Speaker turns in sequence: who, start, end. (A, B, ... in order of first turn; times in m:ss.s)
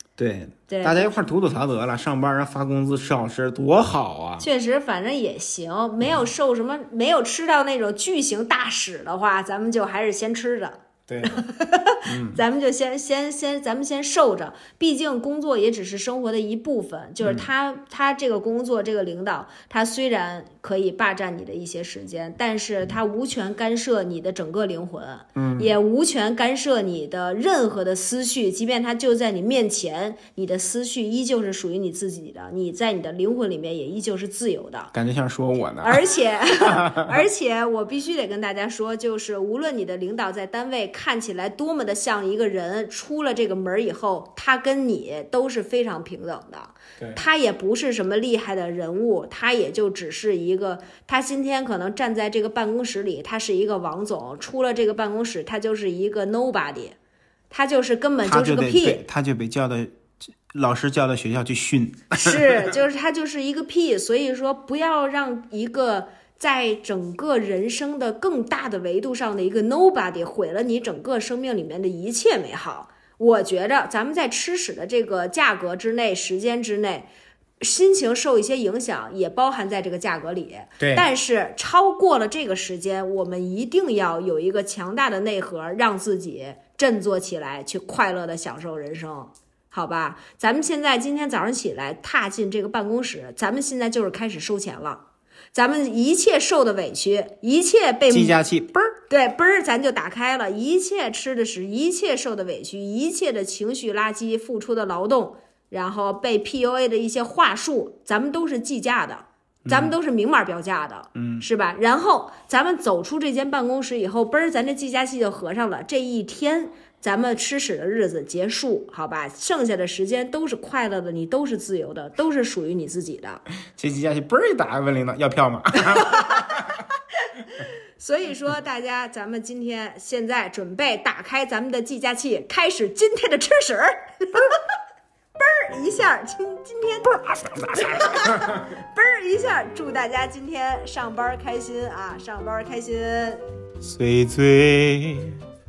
0:00.2-0:04.5 A
0:00.7-0:01.2 B
0:04.4-0:34.9 B
0:11.1-0:11.4 A
0:12.0-0:12.4 A
0:17.2-0:17.5 A
0:25.3-0:25.7 A
0:34.9-0:36.0 A
0:35.8-0:57.0 B
0:36.6-0:37.2 A
0:57.5-0:59.0 B
0:58.2-1:02.7 A
1:02.1-1:17.1 B
1:17.6-1:38.4 B
1:20.8-1:21.1 A
1:38.1-1:38.9 A
1:39.1-2:03.4 B
1:49.6-1:49.9 A
1:51.1-1:51.4 A
2:03.8-2:06.8 A
2:07.3-2:14.6 B
2:15.4-2:17.2 B
2:17.0-2:18.8 A
2:17.7-2:23.4 B
2:23.8-2:25.4 A